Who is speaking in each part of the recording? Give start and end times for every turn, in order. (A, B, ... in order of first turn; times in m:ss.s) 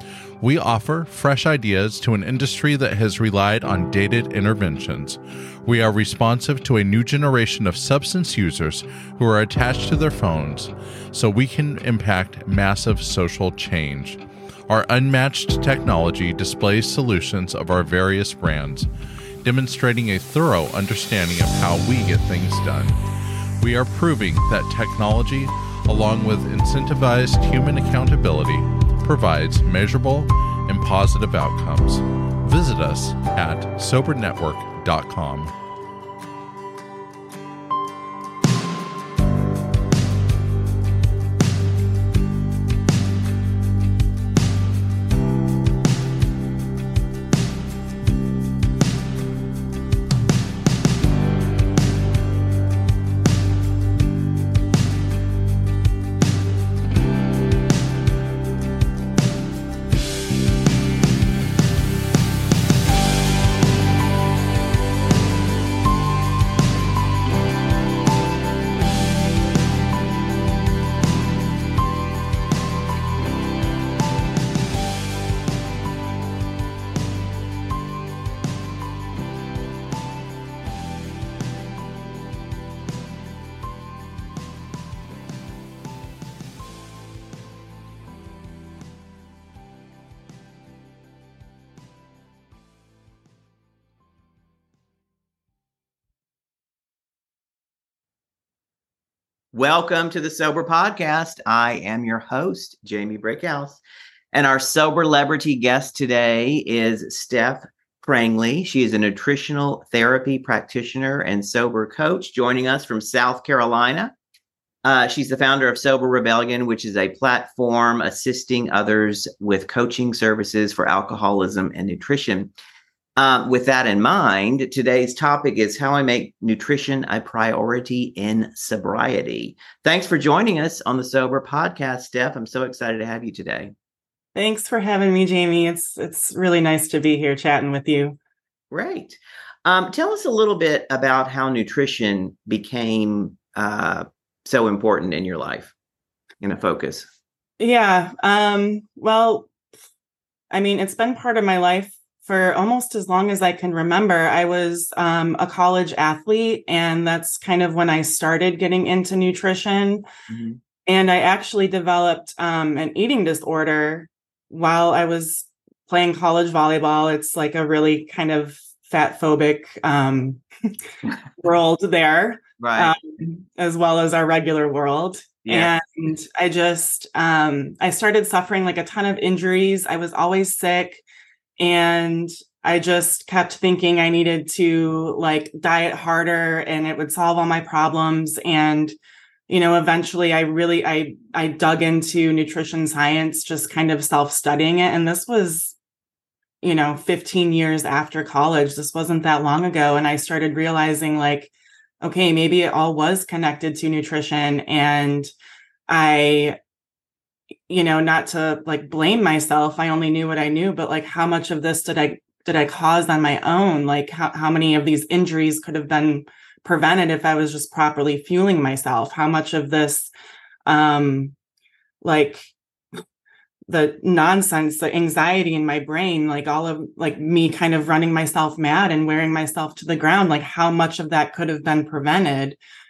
0:00.4-0:18.9 A
0:19.4-0:23.0 A
0:23.6-0:35.5 A
1:39.5-1:43.8 B
1:44.3-1:54.1 B
1:54.8-2:02.5 B
2:03.2-2:13.7 B
2:14.3-2:18.2 C
2:18.7-2:25.7 B
2:26.4-2:27.1 B
2:27.6-2:29.5 C
2:30.5-2:40.0 C
2:40.3-2:40.6 B
2:40.8-2:50.4 C
2:51.4-3:01.0 C
2:52.6-2:52.9 B
2:55.4-2:55.7 B
3:01.6-3:08.9 C
3:09.5-3:15.7 C
3:16.6-3:25.3 C
3:25.9-3:26.6 C
3:27.7-3:40.1 C
3:40.7-3:41.3 C
3:42.0-3:42.5 C
3:43.7-3:52.6 C